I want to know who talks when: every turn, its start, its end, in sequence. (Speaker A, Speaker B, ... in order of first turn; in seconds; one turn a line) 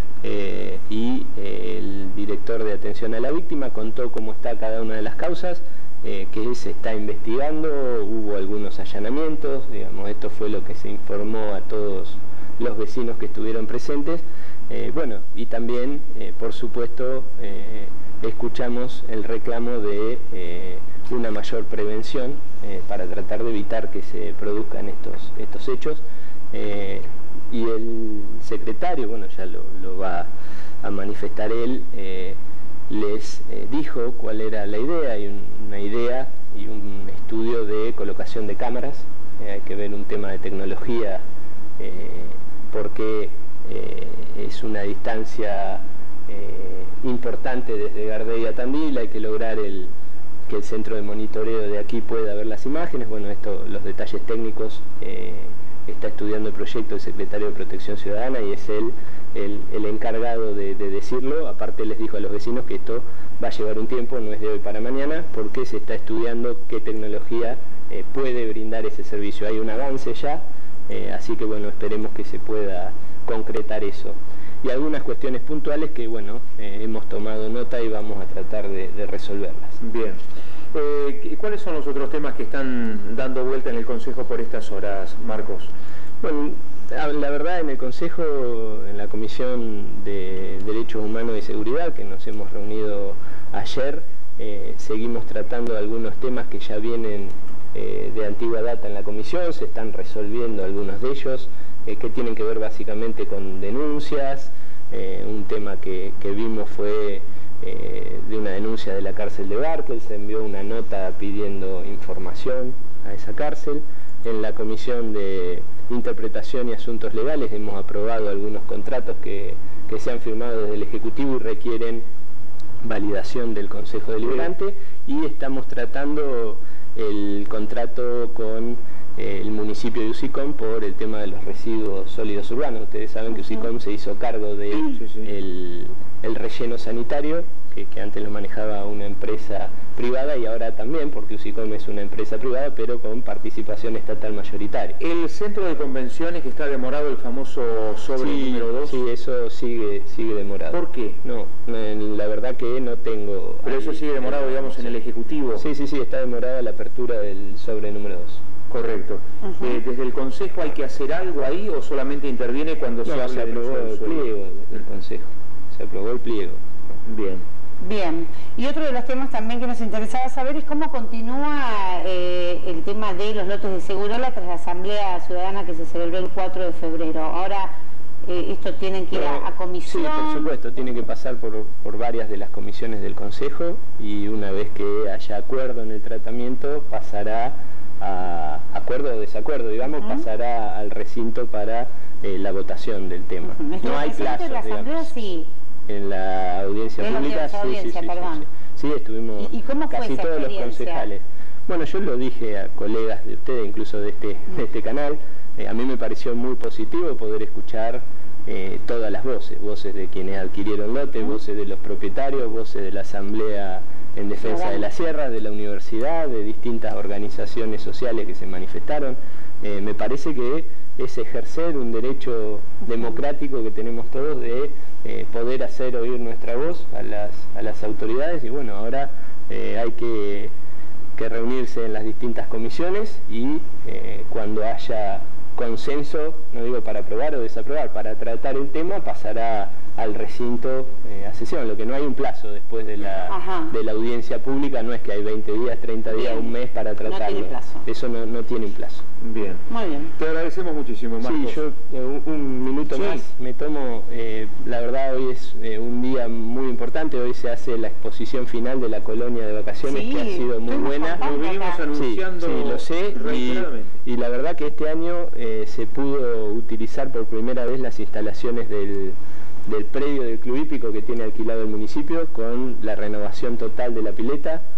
Speaker A: 0.2-30.3
Speaker A: 30.8-32.4
Speaker A: 32.9-41.2
Speaker A: 41.8-49.9
Speaker A: 50.5-79.8
Speaker B: 79.8-80.2
Speaker B: 80.7-85.7
Speaker A: 86.2-122.0
Speaker A: 122.8-145.0
Speaker B: 135.0-135.3
Speaker B: 145.0-149.0
Speaker A: 148.2-155.0
Speaker B: 150.7-151.2
Speaker B: 153.7-155.7
Speaker A: 155.6-158.4
Speaker B: 158.7-164.2
Speaker C: 159.4-159.8
Speaker A: 163.0-166.6
Speaker B: 167.1-167.4
Speaker C: 167.8-177.8
Speaker C: 178.2-180.5
Speaker A: 179.1-195.2
Speaker C: 193.4-195.5
Speaker A: 195.9-230.5
Speaker C: 197.0-198.4
Speaker C: 199.4-201.1
Speaker C: 214.5-214.9
Speaker A: 231.2-249.0
Speaker C: 243.3-243.7
Speaker C: 246.1-246.5
Speaker C: 247.0-247.8
Speaker B: 249.2-251.6
Speaker C: 249.7-250.1
Speaker A: 251.2-261.3
Speaker B: 252.9-253.3
Speaker C: 259.9-261.8
Speaker B: 261.1-264.0
Speaker A: 261.9-274.6